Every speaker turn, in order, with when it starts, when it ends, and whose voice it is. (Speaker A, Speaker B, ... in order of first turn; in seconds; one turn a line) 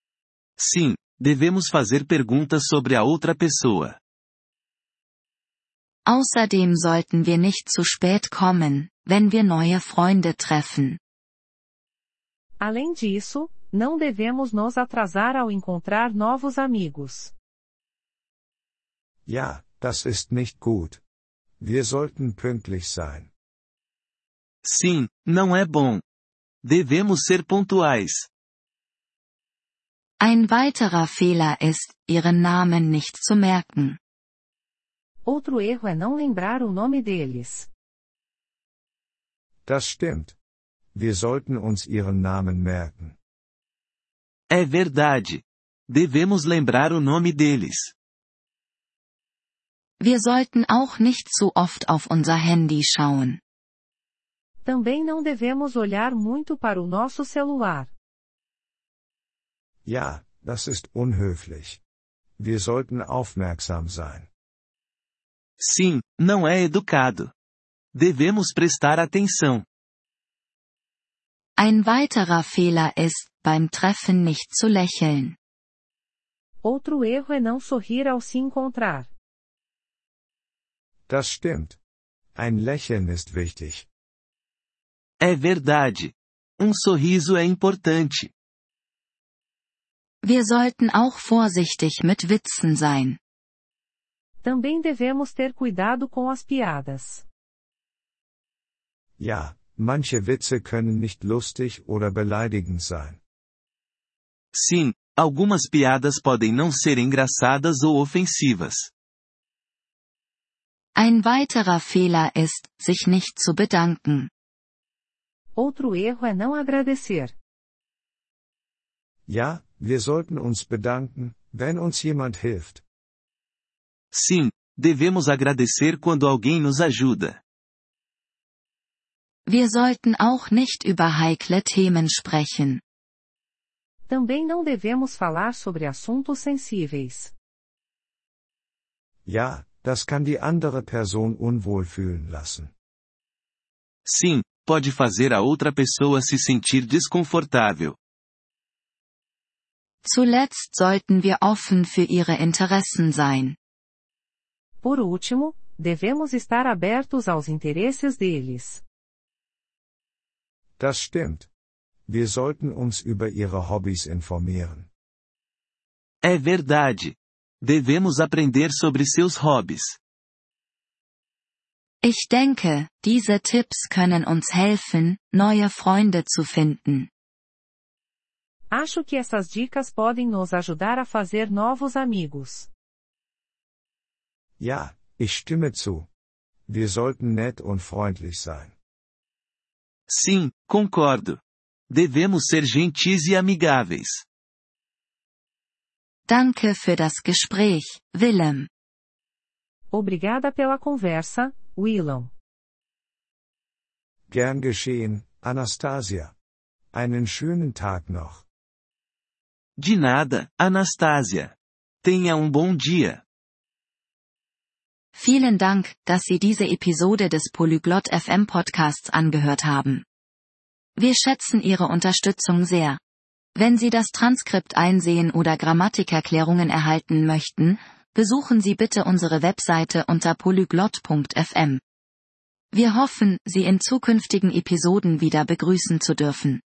Speaker A: 0.6-4.0
Speaker B: 6.1-11.0
Speaker C: 12.6-17.3
Speaker D: 19.2-21.0
Speaker D: 21.6-23.3
Speaker A: 24.6-26.0
Speaker A: 26.6-28.3
Speaker B: 30.2-34.0
Speaker C: 35.2-37.7
Speaker D: 39.7-40.4
Speaker D: 40.9-43.2
Speaker A: 44.5-47.9
Speaker B: 50.0-53.4
Speaker C: 54.6-57.9
Speaker D: 59.8-61.8
Speaker D: 62.4-64.3
Speaker A: 65.6-67.3
Speaker A: 67.9-69.7
Speaker B: 71.6-75.3
Speaker C: 76.6-79.1
Speaker D: 81.1-81.8
Speaker D: 82.3-83.9
Speaker A: 85.2-88.3
Speaker B: 90.2-93.2
Speaker C: 94.4-97.2
Speaker D: 99.2-103.2
Speaker A: 104.5-108.9
Speaker B: 111.0-114.3
Speaker C: 115.6-117.3
Speaker D: 119.3-122.8
Speaker A: 124.1-127.4
Speaker B: 129.5-132.8
Speaker C: 134.1-137.3
Speaker D: 139.3-142.7
Speaker A: 144.1-148.0
Speaker B: 150.0-153.6
Speaker C: 154.8-158.8
Speaker D: 160.8-161.5
Speaker D: 162.1-164.9
Speaker A: 166.2-170.0
Speaker B: 172.0-177.1
Speaker C: 178.7-182.7
Speaker D: 184.6-186.1
Speaker D: 186.7-188.7
Speaker A: 190.1-194.2
Speaker B: 196.3-198.7
Speaker C: 199.9-202.3
Speaker D: 204.3-206.3
Speaker D: 206.9-208.4
Speaker A: 209.8-213.2
Speaker B: 215.2-220.0
Speaker B: 221.0-223.0
Speaker B: 223.5-231.8
Speaker B: 232.7-236.6